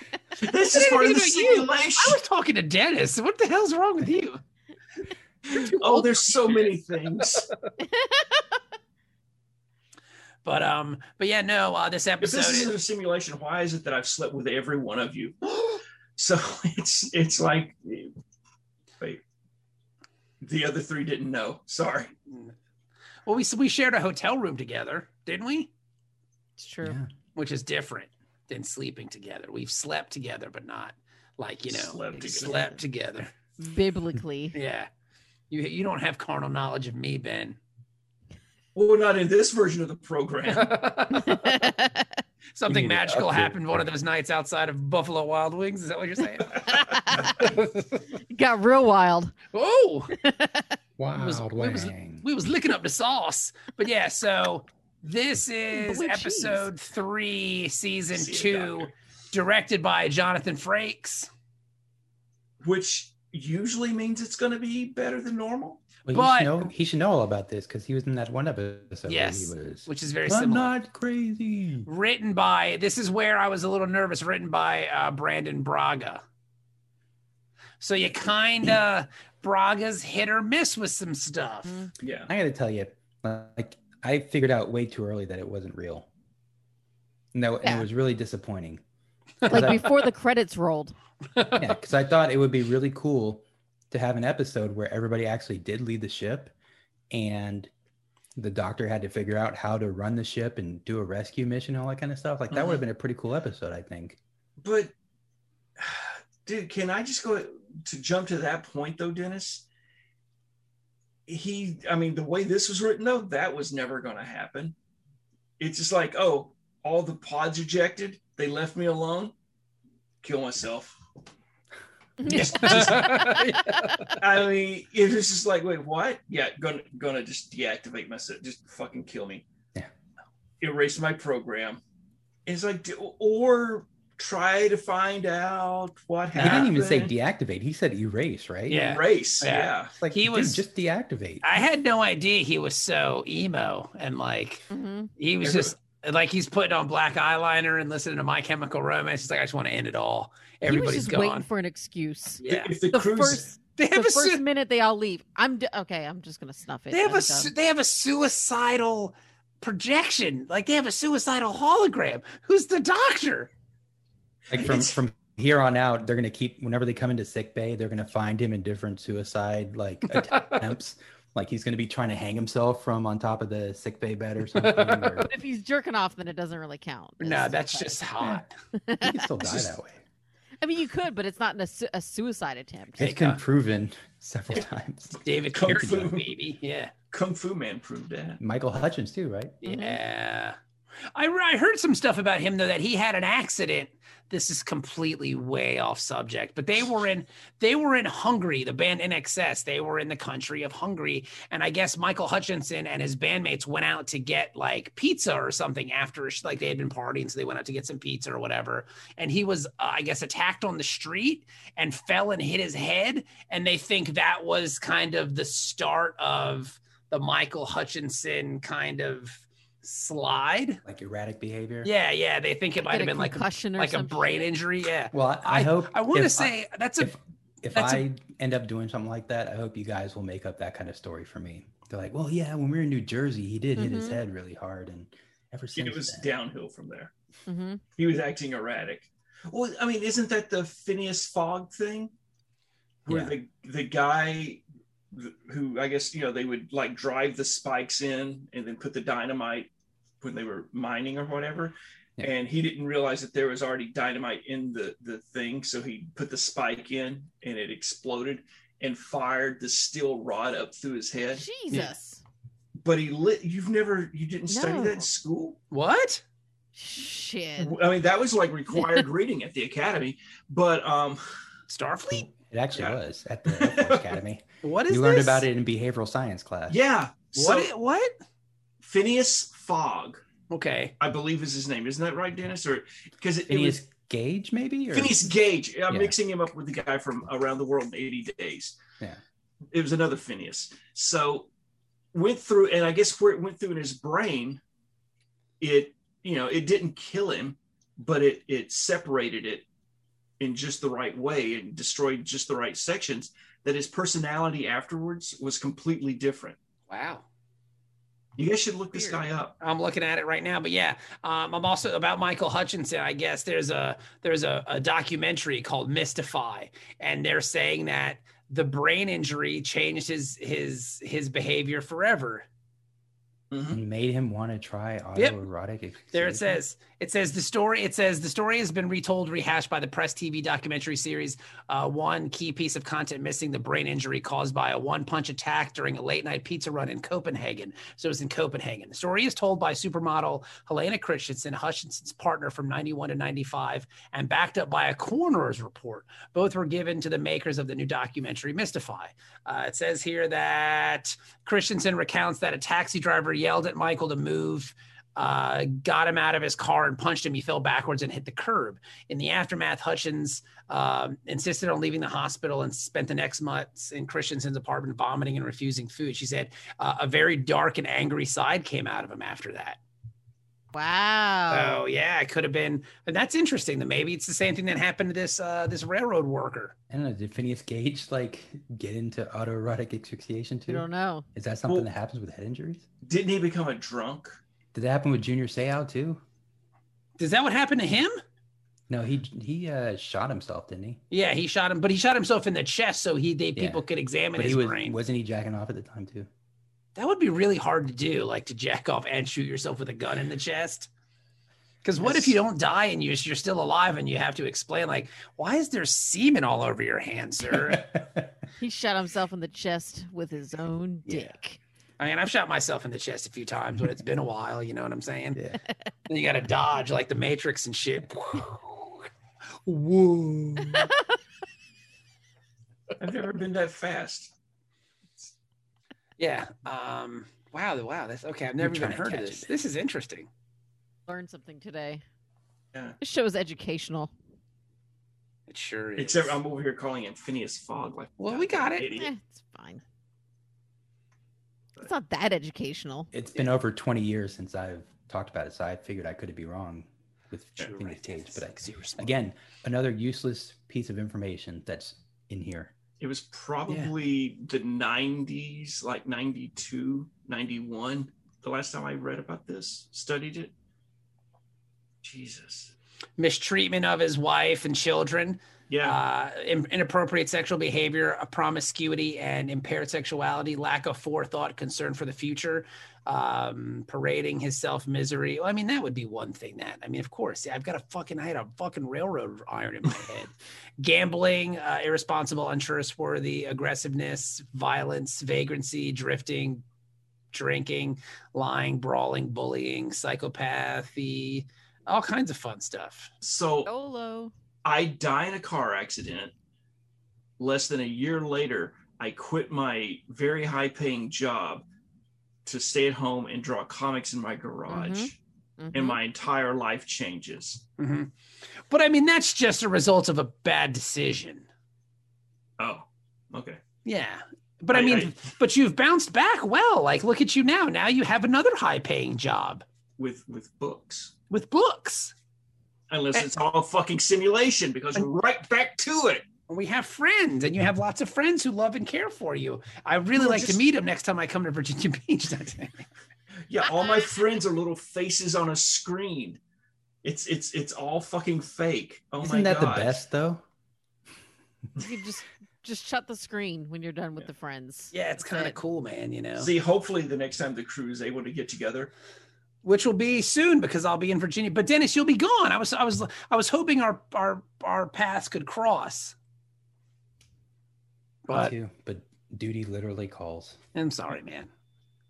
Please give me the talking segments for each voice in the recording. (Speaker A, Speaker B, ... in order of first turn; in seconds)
Speaker A: 0.3-2.2, 5.5-7.5, 12.2-15.4, 16.2-18.1, 20.4-22.1, 31.7-32.6, 38.7-40.8, 58.1-58.9, 62.6-65.8, 82.0-82.3, 102.5-102.8, 104.6-104.9, 105.8-109.6, 111.3-114.7, 115.6-119.3, 120.2-121.0, 122.2-123.4, 124.2-129.4, 130.6-131.8, 132.4-137.1, 138.7-139.9, 145.4-145.7, 152.4-153.5, 164.5-165.0, 179.4-179.7, 185.5-186.3, 187.1-188.4, 235.7-237.1, 238.0-242.1, 243.0-249.7, 250.2-261.4, 262.8-265.6, 267.6-271.2, 272.7-273.0, 273.5-274.1, 276.7-277.7, 278.8-280.2, 281.0-283.8, 284.9-288.8, 289.7-291.5, 292.1-294.6, 295.6-299.6, 300.4-306.6, 308.4-309.6, 323.5-323.8, 383.0-384.4, 423.0-424.3, 436.0-439.1, 453.0-460.5, 462.0-462.7, 465.7-466.0, 493.2-493.7, 494.6-496.3, 497.4-501.6, 502.4-505.2, 505.7-507.6, 512.6-513.6, 514.7-515.1, 520.0-521.1, 522.9-526.2, 530.2-530.6, 533.5-536.4, 537.0-540.0, 546.4-548.9
Speaker B: 0.6-4.4, 5.5-7.4, 10.4-12.7, 22.3-22.5, 23.2-25.7, 27.3-33.3, 34.5-34.9, 35.5-37.6, 40.5-41.7, 42.5-48.0, 49.5-50.1, 51.1-61.3, 66.1-66.7, 69.1-70.7, 71.9-76.2, 77.8-81.9, 89.4-90.0, 91.3-91.8, 122.3-124.2, 136.4-136.7, 138.7-140.6, 141.4-144.6, 145.2-151.5, 152.4-152.8, 153.8-154.4, 156.9-163.5, 170.1-170.7, 174.5-175.2, 177.2-178.5, 183.0-183.4, 185.2-186.9, 189.6-190.6, 191.1-220.8, 221.8-227.1, 227.7-228.0, 265.7-266.2, 271.7-272.3, 274.6-275.4, 277.3-278.1, 280.5-280.9, 306.9-307.2, 309.0-322.4, 326.1-369.8, 371.5-376.7, 387.2-388.2, 391.1-395.0, 396.9-400.9, 401.8-407.9, 412.0-415.4, 416.1-419.1, 419.6-420.9, 426.2-430.3, 435.5-436.4, 438.2-438.9, 447.6-449.1, 463.2-486.6, 487.3-493.1, 507.8-508.1, 508.7-511.5, 513.8-519.6, 521.3-522.1, 526.5-532.9, 544.9-546.5, 549.6-556.1, 558.3-558.5, 560.7-561.5
Speaker C: 7.8-8.4, 26.6-27.0, 32.1-32.8, 33.6-34.5, 41.1-42.2, 46.7-47.5, 48.3-49.4, 50.2-50.7, 55.7-56.6, 89.5-91.0, 122.2-122.6, 144.7-145.1, 150.6-157.5, 175.3-179.3, 180.6-183.1, 189.6-190.0, 222.8-224.4, 233.8-234.2, 237.5-237.8, 261.4-262.2, 264.5-265.0, 266.7-267.8, 370.7-371.8, 380.7-381.2, 408.6-411.6, 431.1-432.0, 433.0-434.1, 438.9-439.8, 441.8-443.1, 493.6-494.3, 504.7-506.0, 541.8-545.5
Speaker D: 26.8-27.1, 42.7-43.8, 51.0-52.2, 66.0-71.9, 82.3-86.0, 87.3-88.8, 89.4-89.9, 91.6-96.5, 97.1-97.7, 98.3-104.2, 122.7-123.1, 136.3-138.9, 140.0-141.6, 164.5-175.3, 179.0-180.0, 183.0-186.2, 188.4-189.6, 220.8-221.9, 225.1-236.3, 243.1-243.3, 272.3-276.8, 283.5-285.2, 285.9-286.1, 323.7-326.6, 376.9-382.8, 384.7-386.2, 388.9-391.0, 393.5-393.8, 394.4-396.3, 402.0-402.4, 407.7-408.2, 428.6-429.5, 443.1-452.7, 539.2-540.4, 558.3-560.6